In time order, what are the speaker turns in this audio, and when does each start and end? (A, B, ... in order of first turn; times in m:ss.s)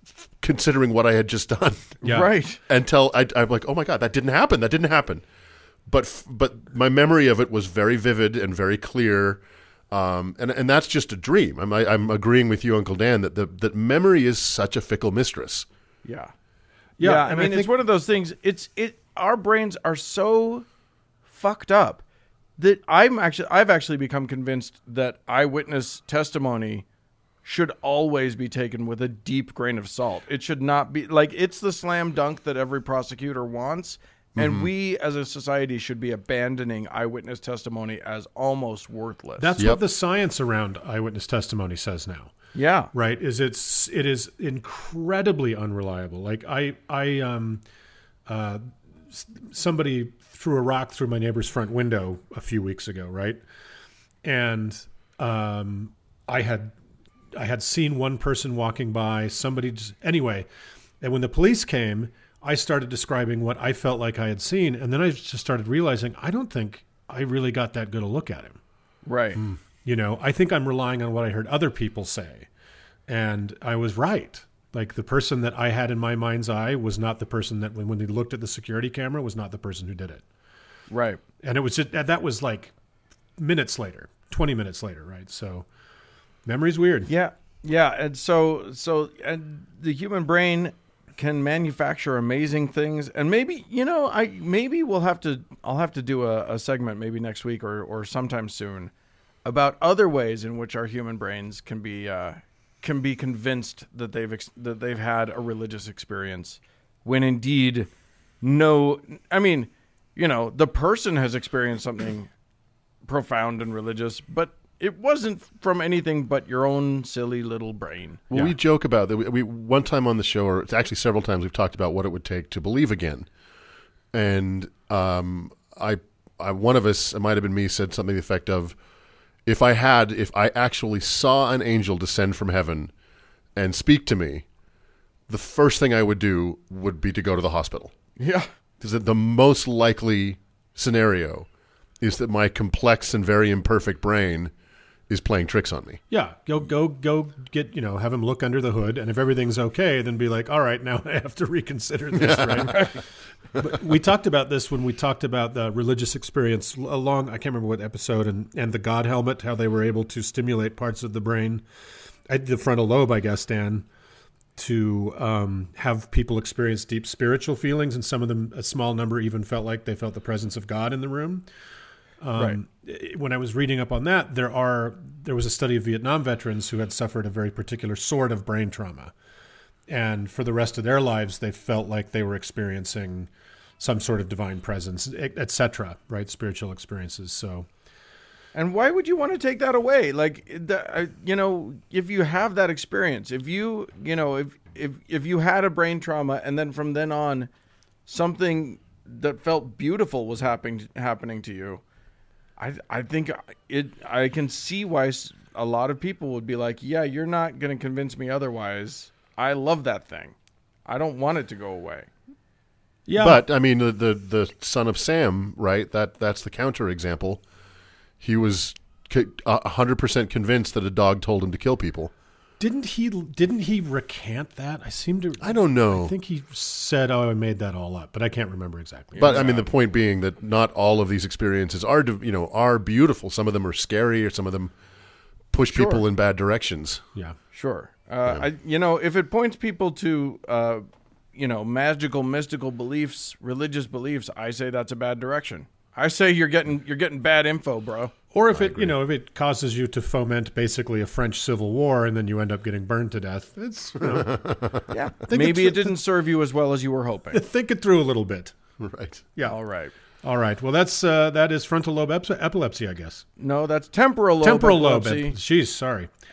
0:00.4-0:02.0 A
0:02.0-0:02.3 B
0:02.0-0:02.6 C
0:02.7-0:05.2 A
0:05.9-0:15.7 A
0:16.0-0:16.3 C
0:17.0-0:17.7 B
0:17.0-0:20.7 C
0:21.3-0:22.0 C
0:22.6-0:26.9 C
0:27.4-0:39.6 C
0:34.4-0:34.7 A
0:39.4-0:42.4 B
0:42.5-0:42.9 C
0:42.9-0:47.6 B
0:48.3-0:53.4 B
0:54.2-0:56.7 B
0:57.4-1:00.5 B
1:01.0-1:08.6 B
1:09.1-1:09.4 C
1:09.8-1:12.5 B
1:13.1-1:20.2 B
1:20.9-1:21.2 C
1:21.4-1:22.7 B
1:23.4-1:25.7 B
1:26.4-1:27.1 B
1:27.1-1:38.9 C
1:39.4-1:47.9 C
1:48.4-1:52.3 C
1:53.1-1:58.4 C
1:58.3-2:03.3 A
2:04.1-2:08.8 A
2:09.5-2:12.9 A
2:13.6-2:14.5 A
2:15.3-2:18.0 A
2:18.2-2:18.5 C
2:18.8-2:21.5 A
2:22.0-2:24.5 A
2:25.1-2:26.0 A
2:26.1-2:33.0 B
2:32.2-2:32.9 A
2:33.6-2:41.7 B
2:42.3-2:43.9 B
2:44.6-2:51.5 B
2:52.2-2:59.1 B
2:59.9-3:07.7 B
3:08.5-3:17.5 C
3:18.1-3:21.8 C
3:22.6-3:30.4 C
3:30.9-3:32.1 C
3:33.1-3:33.4 B
3:33.2-3:37.4 A
3:38.2-3:42.1 A
3:42.6-3:49.6 B
3:45.4-3:46.1 A
3:49.2-3:49.7 C
3:49.2-3:54.7 A
3:55.5-3:57.0 A
3:55.7-3:56.0 C
3:57.5-4:08.1 C
4:08.3-4:14.4 B
4:08.5-4:08.9 A
4:14.0-4:14.8 A
4:14.9-4:17.4 C
4:15.3-4:16.0 B
4:17.3-4:18.6 B
4:18.8-4:19.2 A
4:19.4-4:19.9 C
4:20.2-4:23.2 B
4:23.4-4:25.4 C
4:24.4-4:26.1 B